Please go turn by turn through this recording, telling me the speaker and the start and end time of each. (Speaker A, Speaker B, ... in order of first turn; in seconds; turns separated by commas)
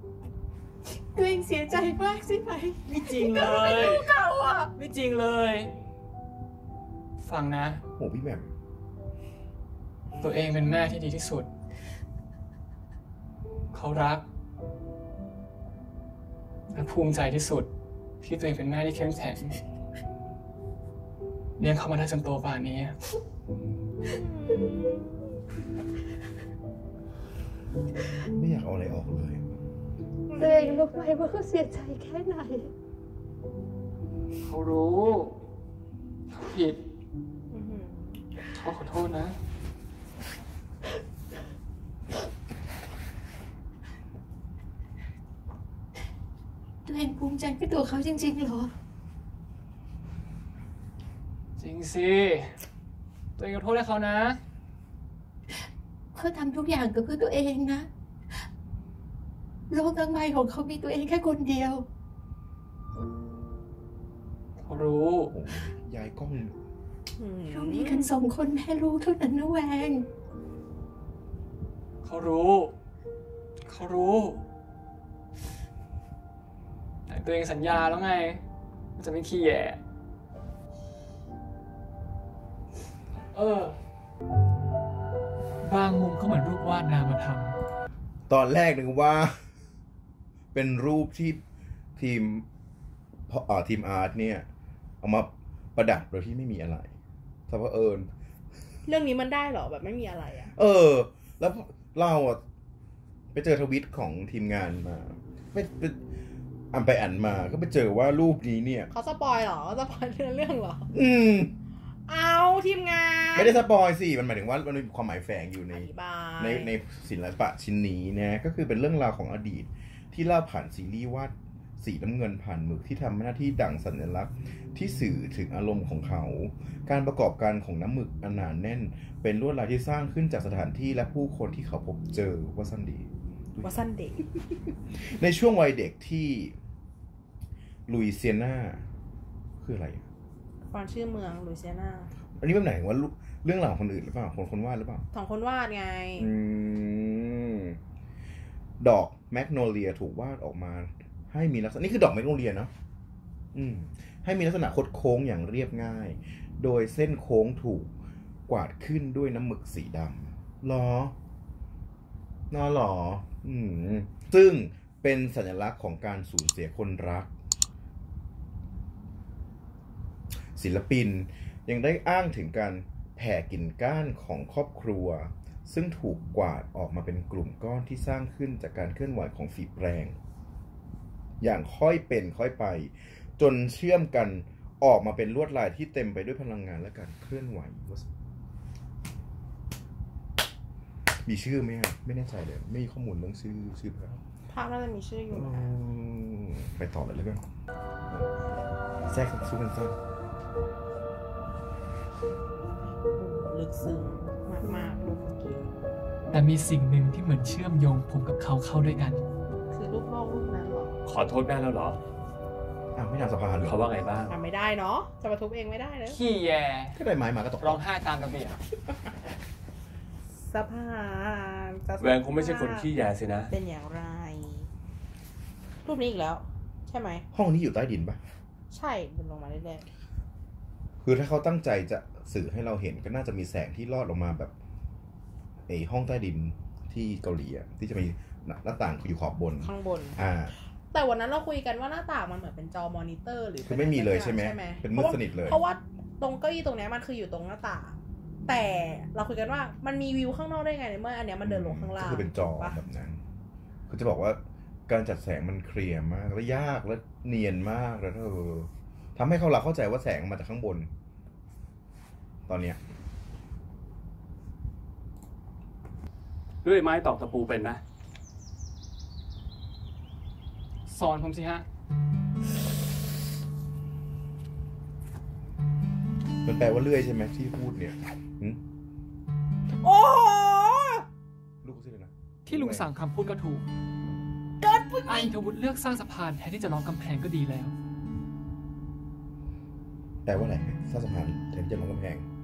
Speaker A: 1.1-4.7, Speaker B: 2.9-4.1, Speaker B: 4.7-5.7, Speaker B: 7.2-7.8, Speaker C: 8.0-8.5, Speaker B: 10.2-11.5, Speaker B: 13.7-14.2, Speaker B: 16.7-17.7, Speaker B: 18.2-19.5, Speaker B: 21.6-22.9, Speaker D: 24.1-25.2, Speaker C: 28.2-29.4, Speaker D: 30.3-31.2, Speaker A: 30.4-32.7, Speaker B: 34.5-35.4, Speaker B: 36.3-36.8, Speaker D: 37.5-38.2, Speaker B: 38.5-39.4, Speaker A: 46.8-48.7, Speaker B: 51.6-52.6, Speaker B: 53.4-54.4, Speaker A: 56.1-57.9, Speaker A: 59.7-61.9, Speaker B: 64.6-65.3, Speaker C: 65.3-66.5, Speaker D: 67.2-68.1, Speaker A: 67.5-70.1, Speaker B: 72.0-72.7, Speaker B: 73.7-74.4, Speaker B: 77.1-78.4, Speaker B: 79.0-79.8, Speaker B: 83.3-83.8, Speaker B: 85.6-87.5, Speaker C: 88.3-89.4, Speaker C: 90.5-91.4, Speaker C: 92.0-92.4, Speaker C: 93.3-94.5, Speaker C: 95.0-96.9, Speaker C: 97.5-98.1, Speaker D: 98.8-100.5, Speaker C: 100.5-102.4, Speaker C: 103.3-106.0, Speaker C: 106.7-108.9, Speaker D: 108.9-110.9, Speaker C: 110.9-111.5, Speaker D: 112.1-113.6, Speaker C: 113.3-115.9, Speaker D: 115.7-116.7, Speaker C: 116.4-133.7, Speaker D: 133.6-134.2, Speaker C: 134.9-136.5, Speaker C: 137.9-138.8, Speaker C: 139.6-140.1, Speaker D: 140.7-142.1, Speaker C: 142.3-145.1, Speaker D: 145.1-146.3, Speaker C: 146.2-147.8, Speaker C: 148.8-152.7, Speaker C: 153.5-157.9, Speaker C: 158.5-161.1, Speaker C: 162.5-167.3, Speaker C: 170.5-180.2, Speaker C: 181.4-188.1, Speaker C: 191.2-194.2, Speaker D: 194.5-195.8, Speaker C: 195.3-197.4, Speaker C: 198.1-198.3, Speaker C: 199.1-199.9, Speaker D: 203.1-205.7, Speaker B: 206.3-209.2, Speaker D: 209.7-211.0, Speaker E: 211.1-212.0, Speaker C: 212.9-214.2, Speaker E: 213.6-214.3, Speaker D: 214.3-216.2, Speaker B: 216.1-217.0, Speaker C: 216.9-217.8, Speaker B: 217.6-218.6, Speaker D: 220.4-222.9, Speaker E: 222.0-223.5, Speaker D: 223.5-224.7, Speaker D: 225.8-227.2, Speaker C: 227.3-228.2, Speaker D: 228.7-229.8, Speaker C: 231.0-234.5, Speaker C: 235.7-240.5, Speaker D: 239.6-240.2, Speaker D: 240.9-252.8, Speaker C: 243.6-245.6, Speaker C: 251.4-253.2, Speaker C: 253.9-260.9, Speaker C: 262.5-262.8, Speaker E: 266.6-267.8, Speaker B: 270.9-271.6, Speaker C: 276.4-278.6, Speaker D: 279.8-281.0, Speaker C: 281.6-282.9, Speaker B: 282.5-283.6, Speaker D: 284.6-285.3, Speaker B: 285.0-287.7, Speaker C: 290.2-292.2